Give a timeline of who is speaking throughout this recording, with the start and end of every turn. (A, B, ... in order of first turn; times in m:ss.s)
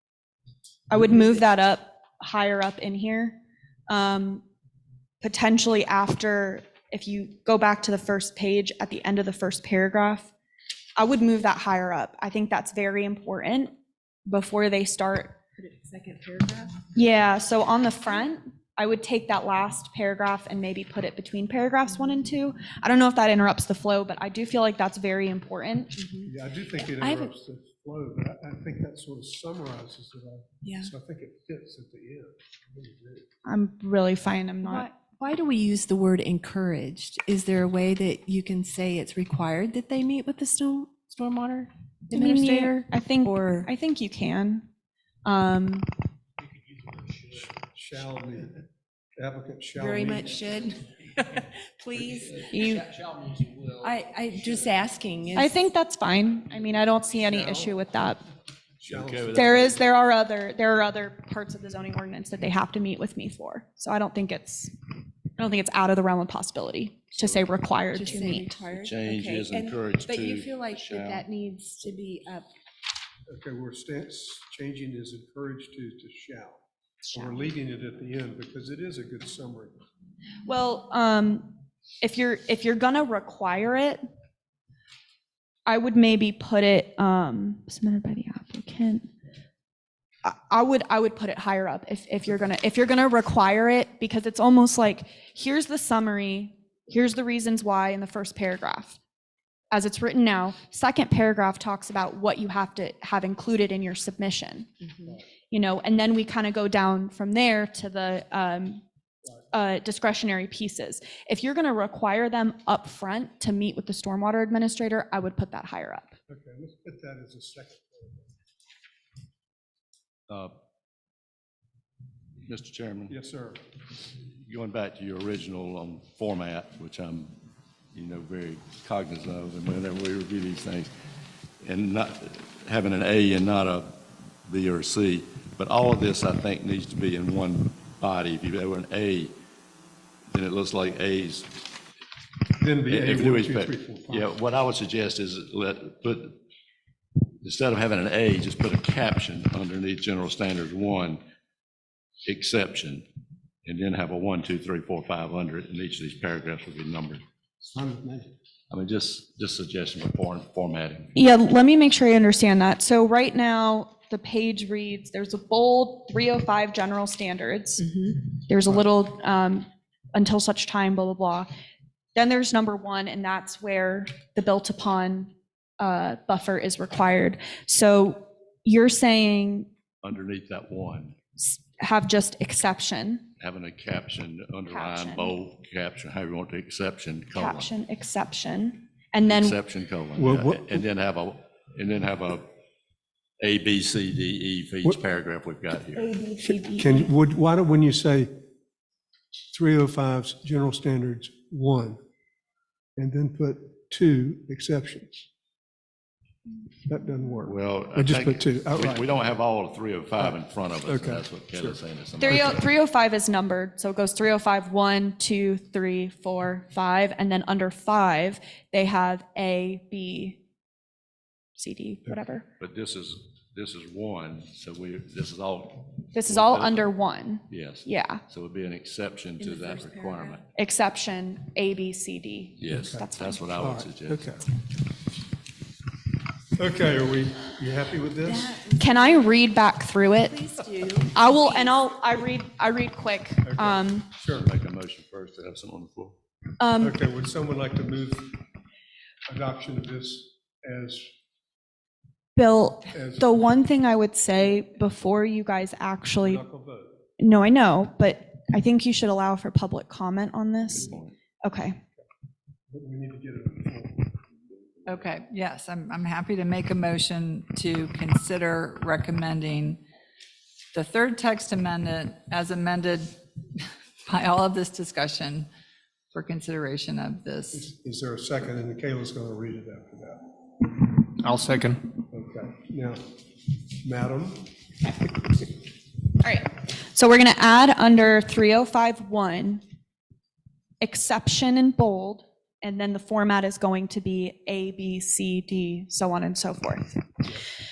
0:00.9-0:03.4 A
0:03.9-0:04.4 A
0:05.2-0:10.3 A
0:11.0-0:13.7 A
0:14.2-0:15.4 A
0:15.6-0:16.8 B
0:16.9-0:26.0 A
0:26.0-0:26.3 B
0:26.2-0:33.2 C
0:26.9-0:27.3 B
0:30.6-0:30.9 B
0:33.4-0:34.9 A
0:34.6-0:43.7 B
0:42.1-0:44.6 A
0:45.2-0:45.9 A
0:47.6-0:48.6 C
0:49.2-0:50.4 C
0:49.8-0:52.8 B
0:52.5-0:52.9 A
0:53.8-0:55.5 B
0:55.3-0:58.2 A
0:57.3-0:57.7 C
0:58.8-0:59.7 C
0:58.8-0:59.8 D
0:59.3-1:04.7 A
1:05.4-1:08.6 A
1:07.9-1:12.5 B
1:08.7-1:11.2 D
1:13.3-1:19.8 C
1:17.1-1:17.4 A
1:20.4-1:24.0 A
1:25.6-1:29.1 A
1:30.2-1:39.0 A
1:39.7-1:44.8 A
1:45.5-1:48.8 A
1:49.5-1:56.1 A
1:56.3-1:58.3 C
2:00.3-2:00.5 D
2:02.4-2:03.1 D
2:03.1-2:03.6 C
2:04.3-2:07.4 D
2:07.9-2:10.9 D
2:11.6-2:19.3 D
2:20.3-2:21.7 D
2:22.6-2:24.3 C
2:22.9-2:26.4 D
2:27.4-2:31.2 D
2:32.2-2:33.0 D
2:33.6-2:37.2 D
2:37.6-2:38.3 C
2:38.7-2:41.1 D
2:41.1-2:51.5 A
2:52.1-2:59.7 A
3:00.0-3:01.1 D
3:01.4-3:03.2 A
3:03.4-3:07.7 D
3:04.7-3:05.3 A
3:07.3-3:09.6 A
3:09.2-3:12.5 D
3:10.2-3:10.8 C
3:13.4-3:16.1 D
3:16.0-3:17.0 B
3:16.7-3:18.3 C
3:19.5-3:22.0 C
3:23.0-3:25.2 C
3:26.8-3:29.1 C
3:27.4-3:32.7 D
3:30.2-3:32.6 C
3:32.2-3:40.4 A
3:41.6-3:42.4 A
3:42.6-3:46.9 D
3:46.1-3:48.2 A
3:47.5-3:50.4 D
3:49.4-3:50.4 B
3:50.6-3:53.4 A
3:52.6-3:54.2 D
3:52.7-3:53.0 C
3:53.6-3:54.4 C
3:56.6-3:58.6 C
3:58.2-3:59.4 B
3:58.8-4:00.4 A
4:00.2-4:01.7 B
4:01.1-4:04.1 A
4:03.4-4:04.5 C
4:04.3-4:06.2 D
4:06.6-4:07.0 A
4:06.8-4:08.4 C
4:09.3-4:11.1 C
4:12.4-4:16.4 A
4:12.9-4:13.4 C
4:16.2-4:17.0 C
4:17.2-4:21.8 A
4:20.7-4:21.1 D
4:22.7-4:24.2 C
4:24.8-4:29.8 E
4:30.7-4:35.5 E
4:36.1-4:37.7 E
4:37.5-4:43.0 C
4:43.8-4:45.0 C
4:46.2-4:49.6 A
4:50.8-4:57.0 A